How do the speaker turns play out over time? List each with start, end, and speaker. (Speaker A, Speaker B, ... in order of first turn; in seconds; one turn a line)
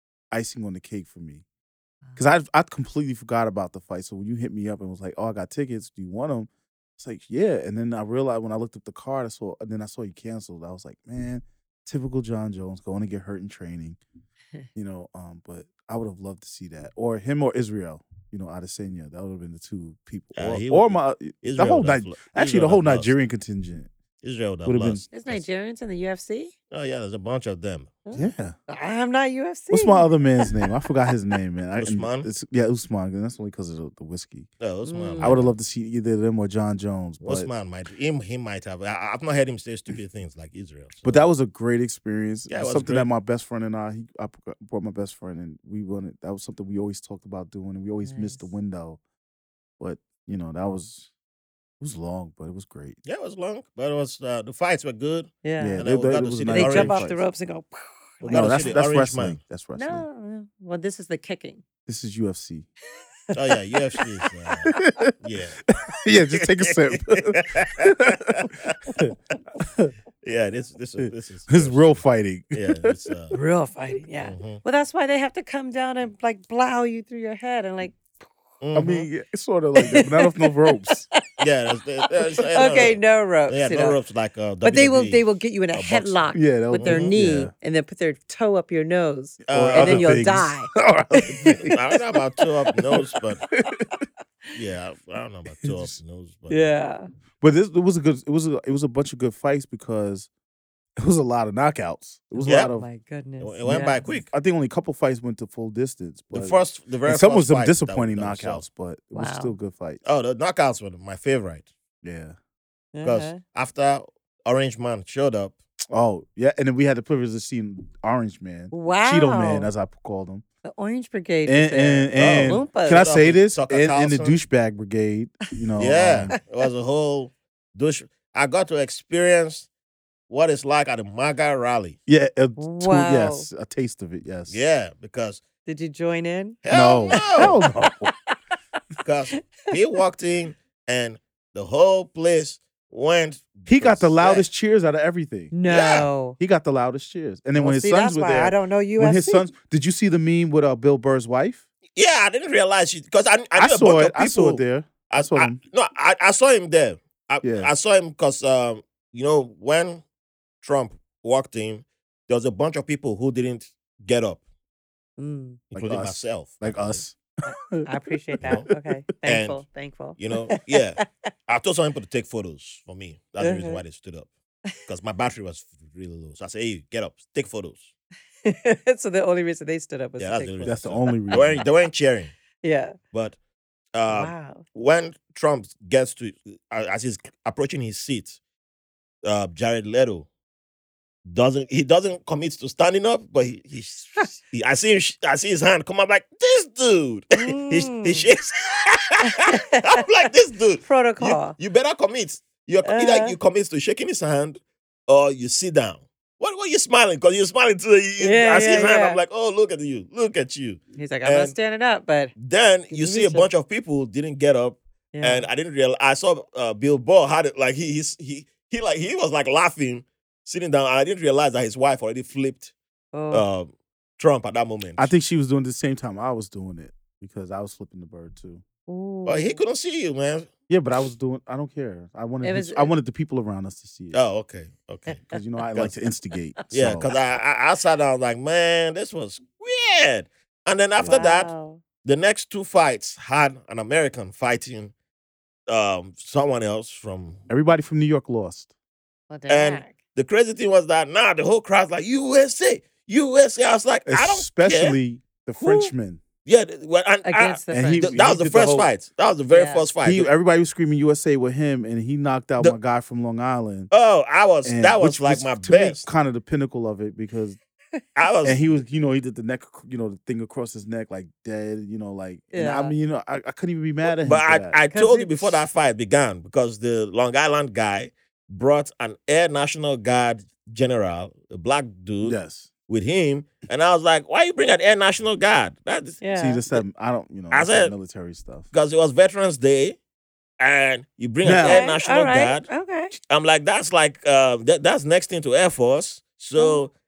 Speaker A: 0.3-1.4
Speaker A: 2.1-14.0
Speaker A: 14.7-23.9
Speaker B: 20.3-23.1
Speaker B: 24.2-25.4
Speaker A: 24.6-25.0
Speaker C: 25.1-26.5
Speaker B: 26.7-28.0
Speaker C: 28.0-30.7
Speaker A: 28.1-28.5
Speaker A: 29.7-34.5
Speaker B: 31.8-32.3
Speaker B: 34.6-35.5
Speaker C: 34.8-35.4
Speaker A: 35.2-37.5
Speaker B: 37.2-41.3
Speaker A: 41.0-49.0
Speaker B: 42.5-43.1
Speaker C: 48.0-48.4
Speaker A: 49.8-51.1
Speaker A: 51.8-53.0
Speaker B: 53.0-57.1
Speaker C: 55.4-55.8
Speaker A: 55.6-57.2
Speaker C: 56.5-58.8
Speaker B: 58.2-59.4
Speaker A: 58.3-60.0
Speaker C: 59.8-61.6
Speaker A: 61.9-62.7
Speaker B: 63.3-65.6
Speaker A: 64.7-65.1
Speaker A: 65.7-69.9
Speaker B: 66.4-69.3
Speaker B: 70.2-73.4
Speaker A: 71.0-72.8
Speaker C: 73.3-78.0
Speaker B: 74.2-74.6
Speaker B: 78.6-79.0
Speaker A: 78.7-81.1
Speaker C: 79.8-81.2
Speaker B: 81.4-87.4
Speaker C: 82.3-84.0
Speaker C: 84.6-90.7
Speaker A: 86.3-87.5
Speaker B: 89.5-90.2
Speaker A: 89.5-91.8
Speaker B: 91.1-93.4
Speaker A: 92.9-93.9
Speaker B: 94.5-96.7
Speaker A: 95.6-95.9
Speaker C: 96.5-97.1
Speaker A: 97.4-100.3
Speaker A: 101.0-102.9
Speaker C: 102.3-104.0
Speaker B: 102.4-102.8
Speaker B: 103.4-104.3
Speaker A: 103.7-110.0
Speaker B: 106.3-108.7
Speaker C: 109.1-109.5
Speaker B: 110.0-111.7
Speaker A: 112.0-112.3
Speaker C: 112.9-113.4
Speaker B: 113.0-115.5
Speaker A: 115.9-120.4
Speaker C: 118.7-119.7
Speaker C: 120.6-123.0
Speaker A: 121.5-126.3
Speaker B: 122.1-124.4
Speaker B: 125.8-129.7
Speaker B: 130.3-132.0
Speaker A: 132.1-134.6
Speaker C: 132.6-133.5
Speaker B: 134.5-135.4
Speaker C: 135.7-136.6
Speaker B: 136.6-137.6
Speaker A: 136.7-138.1
Speaker C: 137.1-138.3
Speaker B: 139.0-144.4
Speaker A: 143.7-145.6
Speaker C: 145.5-146.4
Speaker B: 145.6-146.1
Speaker A: 146.4-151.6
Speaker C: 147.5-149.4
Speaker B: 151.9-160.0
Speaker A: 153.6-155.6
Speaker A: 157.4-157.7
Speaker B: 160.6-164.4
Speaker C: 165.2-165.6
Speaker B: 165.7-167.0
Speaker A: 165.7-168.8
Speaker C: 167.7-171.1
Speaker B: 168.4-168.7
Speaker B: 169.2-169.6
Speaker B: 170.2-174.3
Speaker C: 173.4-173.8
Speaker B: 174.8-177.9
Speaker C: 178.4-181.5
Speaker B: 180.2-182.3
Speaker A: 180.6-181.7
Speaker C: 182.6-182.9
Speaker B: 183.1-183.4
Speaker B: 183.9-188.4
Speaker C: 184.1-184.6
Speaker B: 189.2-190.3
Speaker B: 191.2-211.6
Speaker C: 197.3-198.3
Speaker C: 199.3-200.0
Speaker C: 200.8-201.6
Speaker C: 202.8-203.3
Speaker C: 208.2-209.2
Speaker C: 210.9-212.3
Speaker B: 212.3-222.7
Speaker C: 212.9-213.5
Speaker C: 215.1-215.5
Speaker C: 223.1-223.4
Speaker B: 223.3-225.1
Speaker A: 225.0-228.6
Speaker C: 228.9-229.6
Speaker B: 229.2-230.5
Speaker A: 230.7-234.2
Speaker C: 232.4-232.9
Speaker B: 234.1-235.2
Speaker A: 235.3-237.1
Speaker B: 236.7-244.9
Speaker C: 241.0-241.8
Speaker B: 245.7-247.4
Speaker A: 247.5-248.7
Speaker C: 249.3-249.9
Speaker B: 249.5-255.0
Speaker A: 254.1-256.2
Speaker B: 255.6-255.9
Speaker B: 256.4-260.3
Speaker C: 257.2-258.1
Speaker A: 257.7-258.9
Speaker C: 259.5-259.9
Speaker A: 260.0-263.9
Speaker B: 263.9-266.1
Speaker A: 264.6-267.6
Speaker B: 268.1-268.8
Speaker A: 268.4-274.8
Speaker C: 272.5-272.9
Speaker B: 274.1-286.2
Speaker C: 274.9-275.6
Speaker A: 282.2-282.7
Speaker C: 286.2-286.6
Speaker A: 286.3-288.7
Speaker B: 287.5-287.9
Speaker B: 288.7-290.0
Speaker B: 290.6-296.9
Speaker A: 291.4-291.9
Speaker C: 291.4-293.1
Speaker C: 296.6-296.8